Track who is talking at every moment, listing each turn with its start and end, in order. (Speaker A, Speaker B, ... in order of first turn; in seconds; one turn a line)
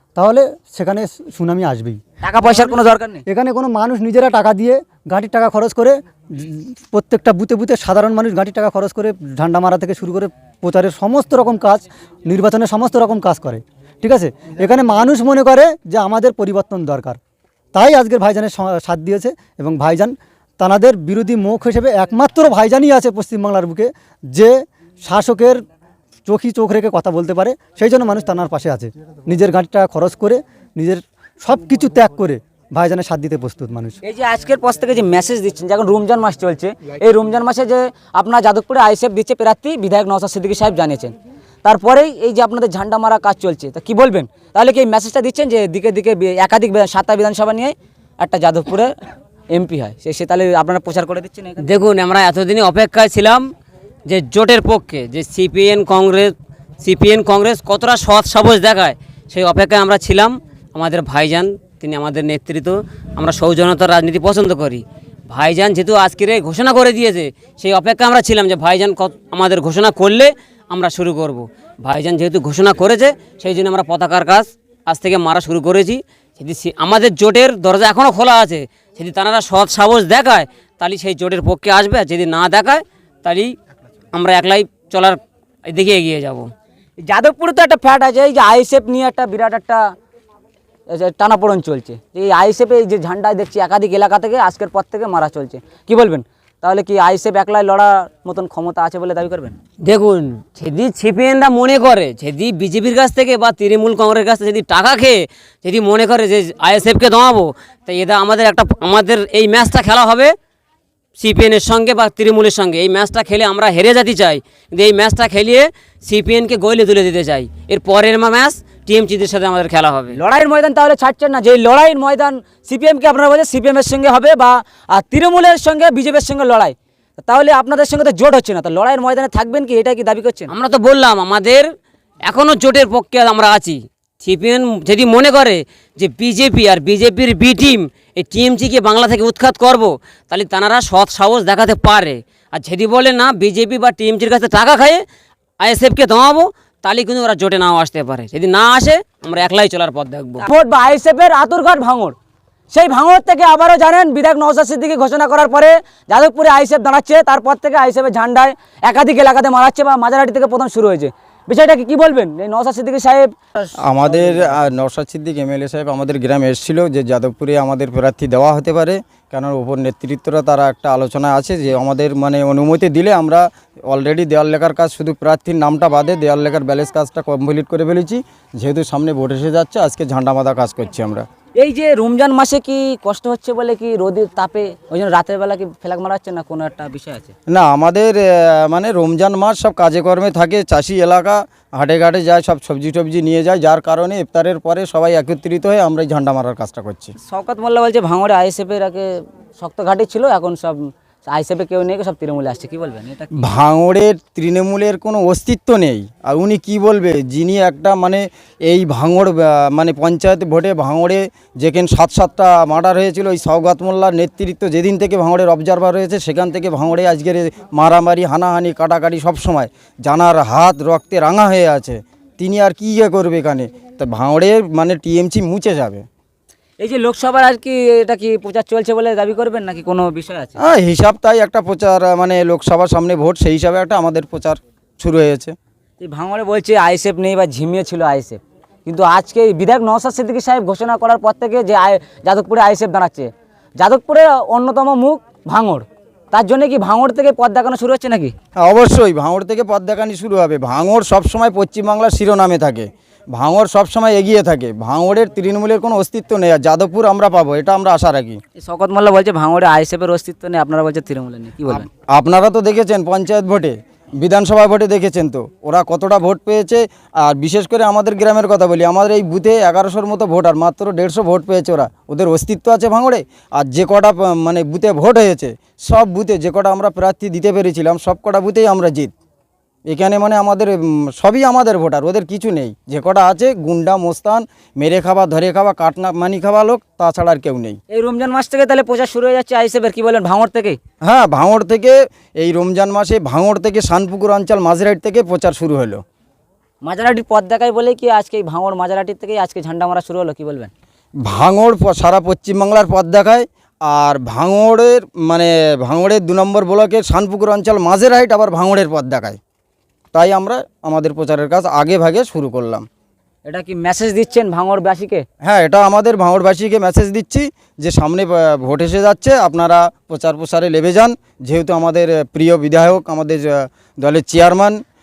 Speaker A: 0.1-2.0
Speaker B: 2.2-3.2
Speaker A: 3.3-17.2
Speaker A: 17.7-25.6
Speaker A: 26.3-34.0
Speaker B: 34.1-41.1
Speaker B: 41.6-48.9
Speaker B: 49.5-51.6
Speaker C: 51.6-53.5
Speaker C: 54.1-83.5
Speaker C: 84.1-86.5
Speaker B: 87.0-89.8
Speaker B: 90.9-99.6
Speaker C: 99.8-110.3
Speaker C: 111.2-120.2
Speaker B: 120.1-130.5
Speaker C: 130.5-131.7
Speaker C: 132.2-145.0
Speaker C: 145.6-150.4
Speaker B: 150.4-152.2
Speaker B: 152.7-163.3
Speaker D: 163.8-181.3
Speaker B: 181.6-187.3
Speaker D: 187.5-197.1
Speaker B: 197.2-203.5
Speaker D: 203.4-226.1
Speaker B: 226.8-230.6
Speaker D: 230.6-235.6
Speaker B: 236.0-248.3
Speaker D: 248.6-258.4
Speaker B: 258.6-261.9
Speaker D: 261.7-279.1
Speaker D: 279.9-287.8
Speaker B: 287.9-290.8
Speaker D: 291.0-296.0
Speaker B: 296.8-300.7
Speaker D: 301.2-309.4
Speaker D: 310.1-312.9
Speaker B: 313.4-315.2
Speaker D: 315.4-324.8